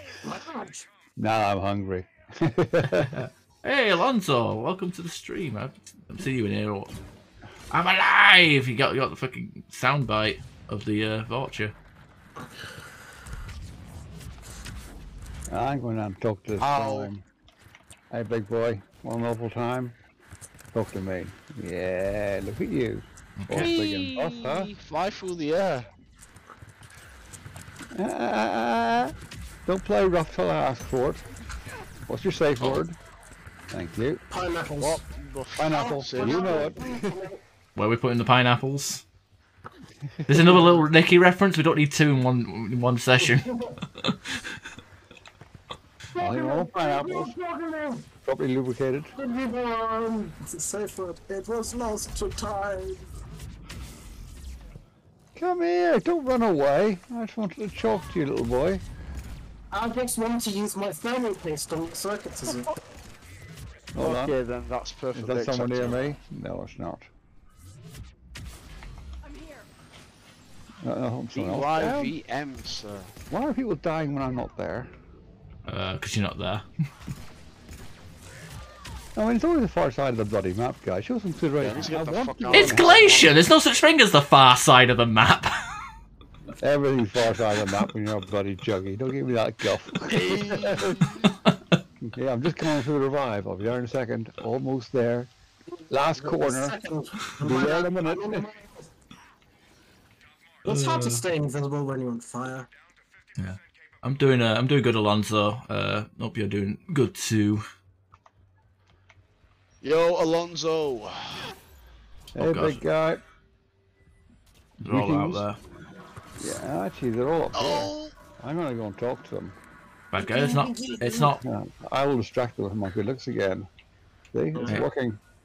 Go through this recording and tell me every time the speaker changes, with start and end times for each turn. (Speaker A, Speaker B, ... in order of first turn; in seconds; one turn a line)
Speaker A: 0.2-0.9
Speaker B: 1.2-3.3
Speaker C: 2.9-6.9
Speaker C: 7.7-11.8
Speaker A: 12.4-12.8
Speaker B: 15.5-17.2
Speaker D: 16.6-17.1
Speaker B: 18.1-20.0
Speaker B: 20.7-24.7
Speaker C: 23.4-23.7
Speaker D: 23.5-25.9
Speaker B: 27.9-29.1
Speaker B: 29.7-31.2
Speaker B: 32.1-33.0
Speaker B: 33.7-34.2
Speaker A: 34.3-35.0
Speaker D: 34.8-36.8
Speaker B: 35.6-37.2
Speaker A: 35.7-37.4
Speaker C: 37.8-39.0
Speaker B: 40.1-40.7
Speaker C: 40.3-44.6
Speaker A: 43.2-43.7
Speaker A: 46.1-48.1
Speaker B: 46.2-47.3
Speaker B: 48.2-49.1
Speaker A: 49.2-53.1
Speaker B: 55.4-58.8
Speaker A: 59.7-62.7
Speaker B: 64.0-64.3
Speaker D: 64.0-66.1
Speaker B: 65.2-67.1
Speaker B: 70.8-72.1
Speaker D: 71.3-73.1
Speaker B: 73.3-74.9
Speaker C: 75.7-76.7
Speaker B: 79.2-83.2
Speaker D: 81.6-83.4
Speaker C: 82.5-85.6
Speaker B: 86.6-90.9
Speaker D: 90.1-91.3
Speaker B: 92.0-95.3
Speaker A: 95.8-98.9
Speaker B: 95.9-96.8
Speaker B: 97.4-98.5
Speaker A: 100.7-102.7
Speaker C: 100.7-101.2
Speaker C: 103.4-107.6
Speaker D: 109.8-111.5
Speaker B: 112.3-113.2
Speaker C: 112.4-112.8
Speaker B: 114.8-115.4
Speaker C: 114.8-115.6
Speaker B: 116.4-119.5
Speaker D: 117.5-118.1
Speaker C: 120.1-121.4
Speaker A: 120.2-121.4
Speaker B: 121.4-123.7
Speaker B: 124.3-125.2
Speaker A: 124.5-124.8